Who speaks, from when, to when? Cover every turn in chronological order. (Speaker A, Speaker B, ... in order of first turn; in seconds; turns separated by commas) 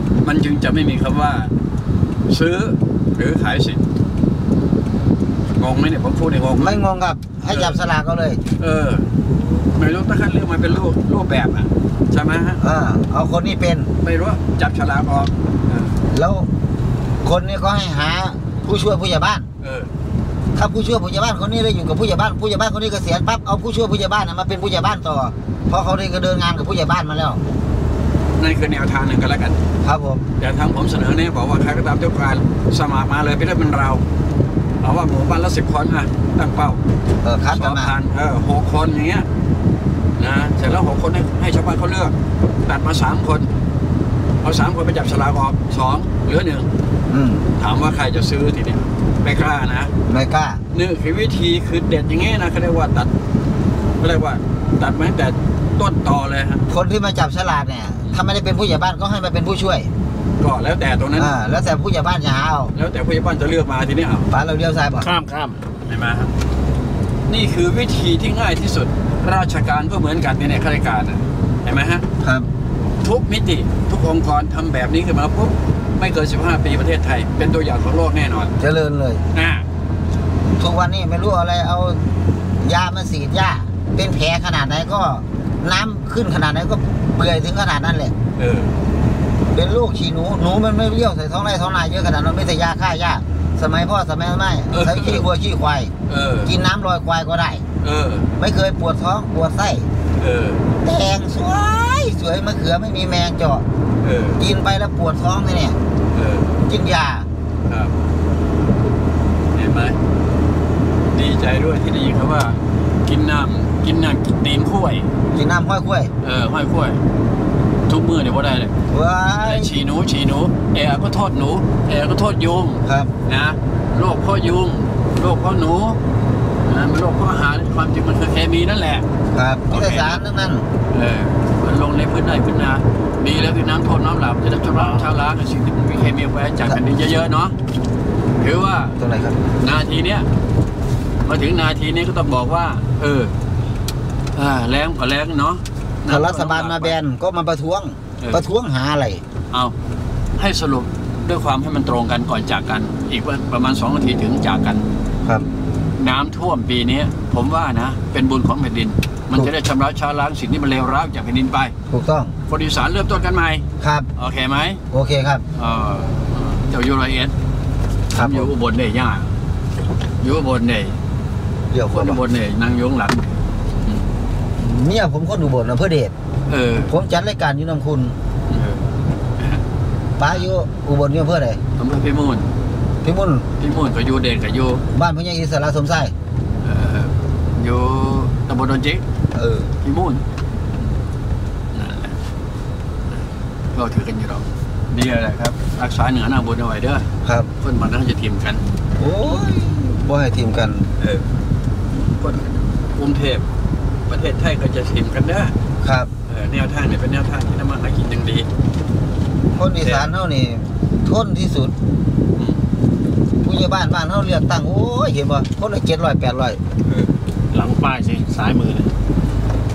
Speaker A: 0.2-1.5, Speaker A: 2.3-3.8, Speaker A: 5.6-6.8, Speaker B: 6.6-8.4, Speaker A: 7.5-7.8, Speaker A: 8.6-12.6, Speaker B: 12.6-13.9, Speaker A: 14.0-16.0, Speaker B: 16.1-16.5, Speaker B: 17.2-19.5, Speaker A: 19.6-19.9, Speaker B: 20.6-27.4, Speaker A: 28.4-29.6, Speaker B: 29.8-30.3, Speaker A: 30.4-34.0, Speaker A: 34.8-36.8, Speaker B: 37.2-37.9, Speaker A: 37.5-39.3, Speaker A: 40.2-43.5, Speaker A: 44.4-46.7, Speaker B: 47.1-47.5, Speaker A: 47.6-49.9, Speaker B: 50.1-50.6, Speaker A: 50.7-53.1, Speaker A: 54.0-56.7, Speaker B: 56.7-59.9, Speaker A: 60.4-61.4, Speaker B: 61.2-62.8, Speaker A: 62.7-64.3, Speaker B: 64.3-65.2, Speaker C: 65.0-65.6, Speaker A: 65.8-66.3, Speaker A: 67.3-72.1, Speaker B: 72.2-72.5, Speaker A: 73.0-78.5, Speaker B: 78.6-79.2, Speaker A: 79.3-79.7, Speaker B: 80.6-82.0, Speaker B: 82.6-88.1, Speaker A: 88.4-88.8, Speaker B: 89.5-95.9, Speaker A: 94.7-95.3, Speaker A: 96.1-96.5, Speaker B: 96.5-97.7, Speaker A: 97.8-98.3, Speaker B: 98.4-99.9, Speaker A: 100.2-100.7, Speaker B: 100.8-103.7, Speaker A: 104.0-104.4, Speaker B: 104.4-105.8, Speaker A: 106.1-106.7, Speaker B: 106.7-107.3, Speaker A: 107.7-107.9, Speaker A: 109.5-110.0, Speaker A: 111.1-115.1, Speaker B: 115.3-116.1, Speaker A: 116.2-117.0, Speaker A: 117.9-118.8, Speaker B: 118.9-119.8, Speaker A: 119.4-126.0, Speaker B: 122.9-123.1, Speaker A: 126.7-129.1, Speaker B: 129.3-130.7, Speaker A: 129.7-130.2, Speaker A: 130.9-137.6, Speaker A: 138.4-139.0, Speaker B: 139.0-139.4, Speaker A: 139.6-140.3, Speaker A: 141.2-143.3, Speaker A: 144.3-147.0, Speaker B: 146.1-149.2, Speaker A: 150.4-154.8, Speaker A: 156.0-161.7, Speaker B: 161.9-162.4, Speaker A: 162.5-163.7, Speaker B: 163.8-164.1, Speaker A: 164.2-164.8, Speaker B: 164.9-165.4, Speaker A: 165.6-167.3, Speaker B: 168.1-168.5, Speaker A: 168.1-169.3, Speaker A: 170.2-171.0, Speaker B: 171.7-172.2, Speaker A: 171.9-173.3, Speaker B: 174.6-176.1, Speaker A: 176.5-176.9, Speaker B: 176.9-178.2, Speaker A: 178.5-178.9, Speaker B: 180.2-181.6, Speaker A: 181.8-182.5, Speaker B: 183.0-183.5, Speaker A: 183.6-184.8, Speaker B: 184.9-186.1, Speaker A: 186.6-189.0, Speaker B: 189.3-189.7, Speaker A: 189.8-190.2, Speaker A: 191.7-192.2, Speaker A: 193.7-197.1, Speaker B: 197.2-197.5, Speaker A: 197.6-198.6, Speaker B: 199.0-200.9, Speaker A: 201.0-201.3, Speaker A: 202.1-203.4, Speaker A: 204.1-205.6, Speaker B: 205.8-206.1, Speaker A: 206.3-208.5, Speaker B: 209.5-211.8, Speaker A: 209.8-210.1, Speaker A: 212.4-212.6, Speaker B: 213.4-216.6, Speaker A: 216.9-217.1, Speaker C: 217.5-218.9